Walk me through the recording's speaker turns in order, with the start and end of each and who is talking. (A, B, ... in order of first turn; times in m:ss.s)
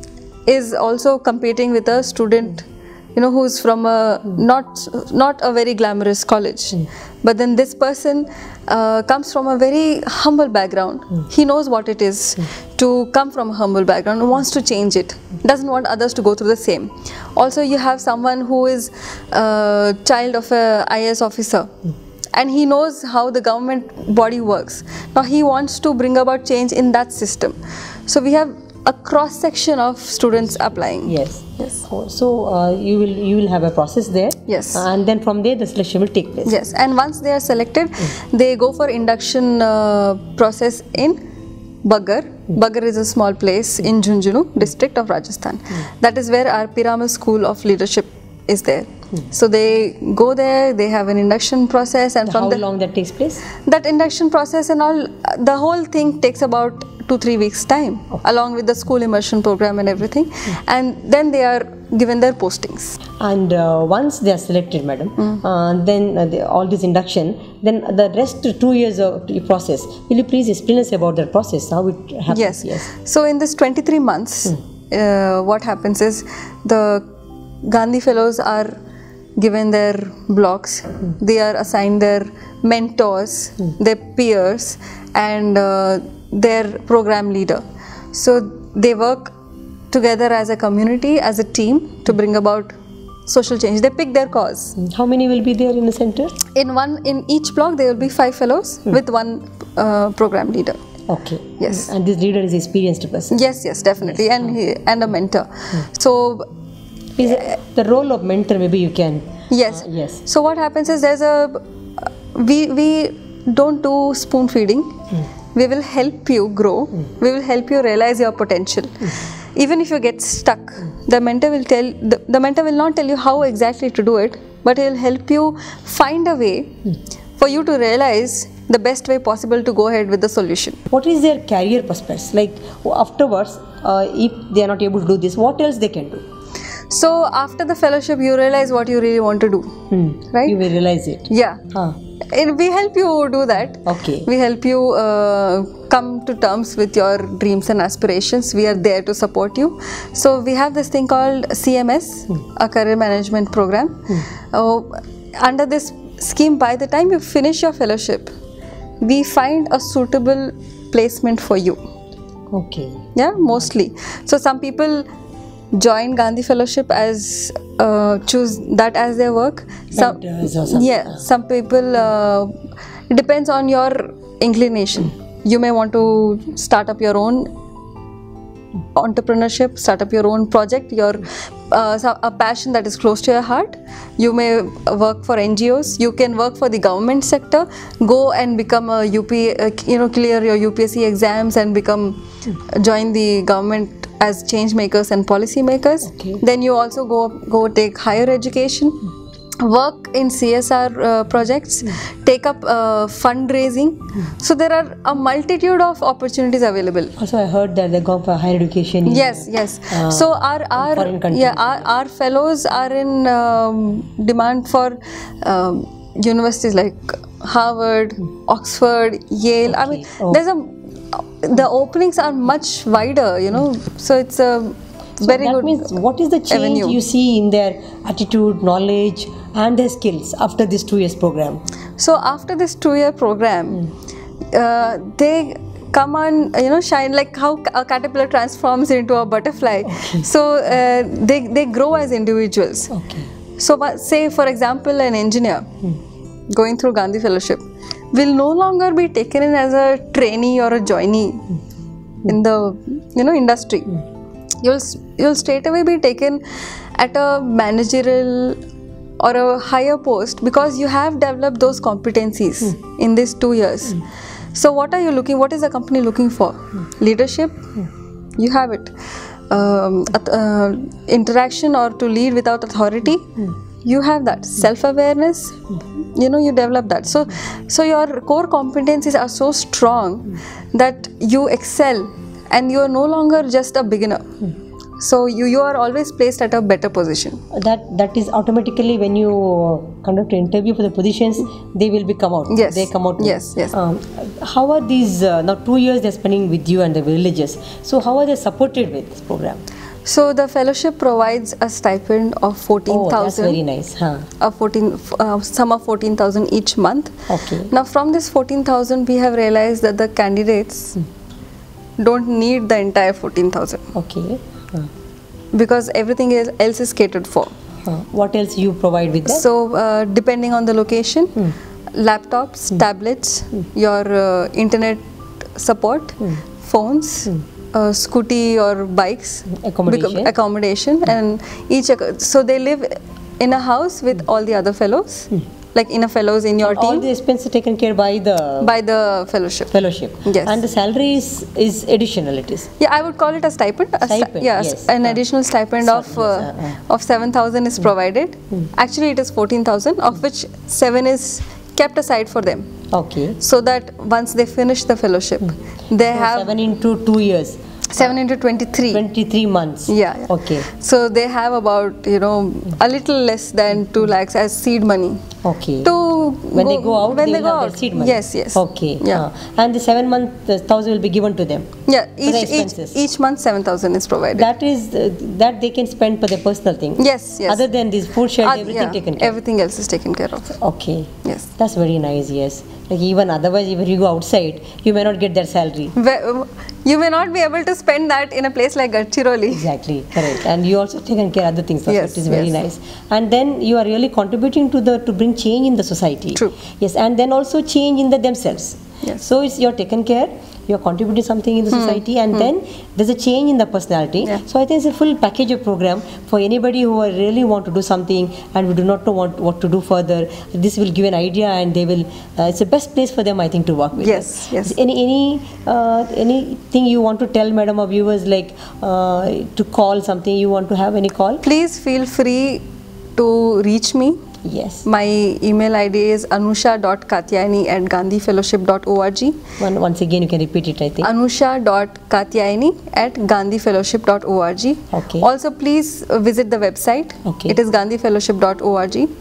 0:00.4-0:21.7 A
0:22.3-0:31.8 A
0:30.6-0:36.6 B
0:34.5-0:34.9 A
0:36.4-0:41.2 A
0:41.8-0:52.6 A
0:52.2-0:53.4 B
0:53.6-1:03.0 A
1:03.2-1:12.9 B
1:12.3-1:17.0 A
1:17.6-1:18.7 A
1:19.4-1:27.6 A
1:28.1-1:29.3 A
1:29.9-1:32.7 A
1:33.2-1:34.7 A
1:34.8-1:36.3 B
1:36.5-1:40.8 A
1:41.1-1:43.4 B
1:41.6-1:41.9 A
1:43.3-1:46.5 A
1:47.2-1:50.2 B
1:49.5-1:55.0 A
1:55.5-2:06.8 A
2:07.4-2:10.8 A
2:10.9-2:16.2 B
2:16.9-2:19.7 A
2:19.9-2:22.0 B
2:20.3-2:20.6 A
2:21.3-2:21.7 A
2:22.2-2:38.3 A
2:23.8-2:24.3 B
2:39.0-2:41.8 A
2:42.5-2:43.0 B
2:43.1-2:45.1 A
2:45.7-2:52.6 A
2:49.9-2:51.2 B
2:53.1-2:57.5 A
2:58.9-3:19.0 A
3:16.1-3:16.4 B
3:19.6-3:27.1 A
3:27.2-3:31.8 B
3:29.0-3:45.9 A
3:39.6-3:40.4 B
3:45.2-3:51.6 B
3:46.5-3:47.0 A
3:52.0-3:53.9 A
3:54.5-4:02.9 A
3:59.8-4:00.3 B
4:02.9-4:03.3 B
4:03.6-4:05.7 A
4:06.5-4:11.5 A
4:12.2-4:14.0 A
4:14.6-4:16.4 A
4:16.9-4:18.6 A
4:19.2-4:27.7 A
4:28.4-4:28.9 A
4:29.5-4:44.2 A
4:45.0-4:47.4 A
4:47.5-4:59.6 B
4:52.5-4:53.7 A
5:00.0-5:03.6 A
5:02.9-5:04.3 B
5:04.4-5:11.0 A
5:07.3-5:07.7 B
5:12.0-5:13.9 A
5:13.9-5:14.9 B
5:15.5-5:17.5 A
5:17.8-5:19.5 B
5:19.2-5:25.0 A
5:25.6-5:37.1 A
5:29.5-5:30.3 B
5:36.6-5:38.7 B
5:38.6-5:40.6 A
5:39.7-5:42.7 B
5:42.8-5:52.7 A
5:44.0-5:45.2 B
5:45.8-5:46.8 B
5:52.9-5:53.4 B
5:53.4-5:56.6 A
5:56.1-5:57.6 B
5:57.9-5:59.0 A
5:58.9-6:00.7 B
5:59.9-6:05.2 A
6:05.4-6:05.9 B
6:05.8-6:09.2 A
6:06.5-6:11.7 B
6:11.8-6:14.5 A
6:12.2-6:13.0 B
6:14.3-6:19.4 B
6:17.0-6:17.7 A
6:18.4-6:20.6 A
6:20.5-6:25.9 B
6:21.2-6:21.5 A
6:26.0-6:29.7 A
6:29.5-7:01.4 B
6:31.9-6:32.6 A
6:41.7-6:42.5 A
6:54.0-6:54.8 A
7:01.4-7:02.6 A
7:03.2-7:04.2 A
7:04.4-7:04.8 B
7:04.8-7:09.4 A
7:09.6-7:11.1 B
7:11.0-7:19.1 A
7:14.9-7:15.3 B
7:17.2-7:17.6 B